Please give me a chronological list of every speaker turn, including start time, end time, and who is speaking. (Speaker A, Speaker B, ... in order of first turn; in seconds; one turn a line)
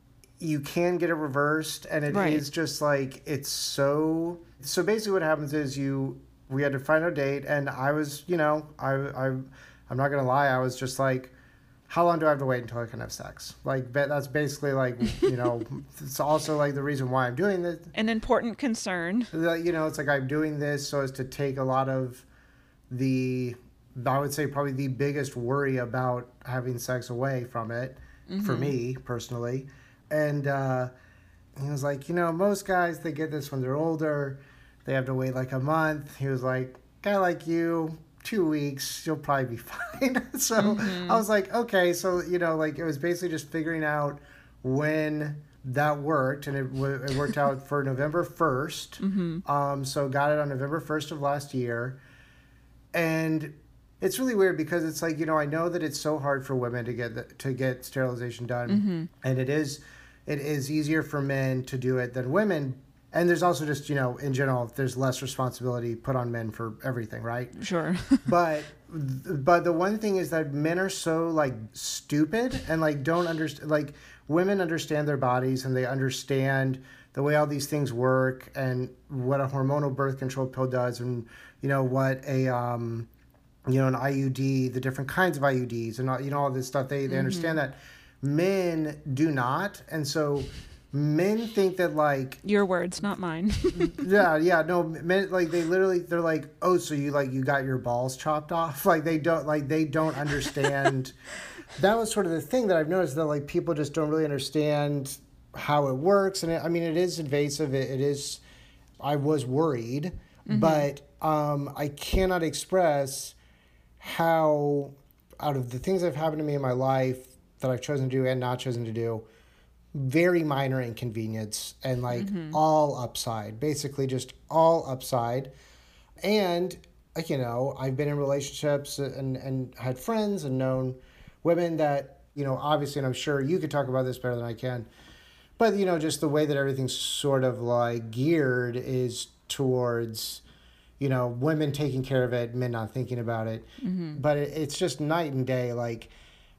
Speaker A: 0.4-11.3
Speaker B: 2.1-2.4
Speaker A: 11.9-17.9
Speaker B: 17.9-19.3
Speaker A: 19.3-22.2
Speaker A: 22.9-30.9
Speaker B: 28.3-28.8
Speaker A: 31.6-52.0
Speaker B: 40.6-41.2
Speaker B: 49.0-49.4
Speaker A: 52.9-67.6
Speaker B: 58.7-59.1
Speaker B: 67.6-68.3
Speaker A: 68.2-83.1
Speaker A: 83.7-92.4
Speaker B: 87.1-87.6
Speaker B: 92.4-94.0
Speaker A: 93.8-101.1
Speaker A: 101.7-108.4
Speaker A: 109.0-113.3
Speaker B: 110.5-110.9
Speaker A: 114.0-119.3
Speaker A: 119.9-125.5
Speaker B: 122.1-122.6
Speaker A: 126.2-134.9
Speaker A: 135.6-140.4
Speaker A: 141.0-146.1
Speaker B: 143.8-144.2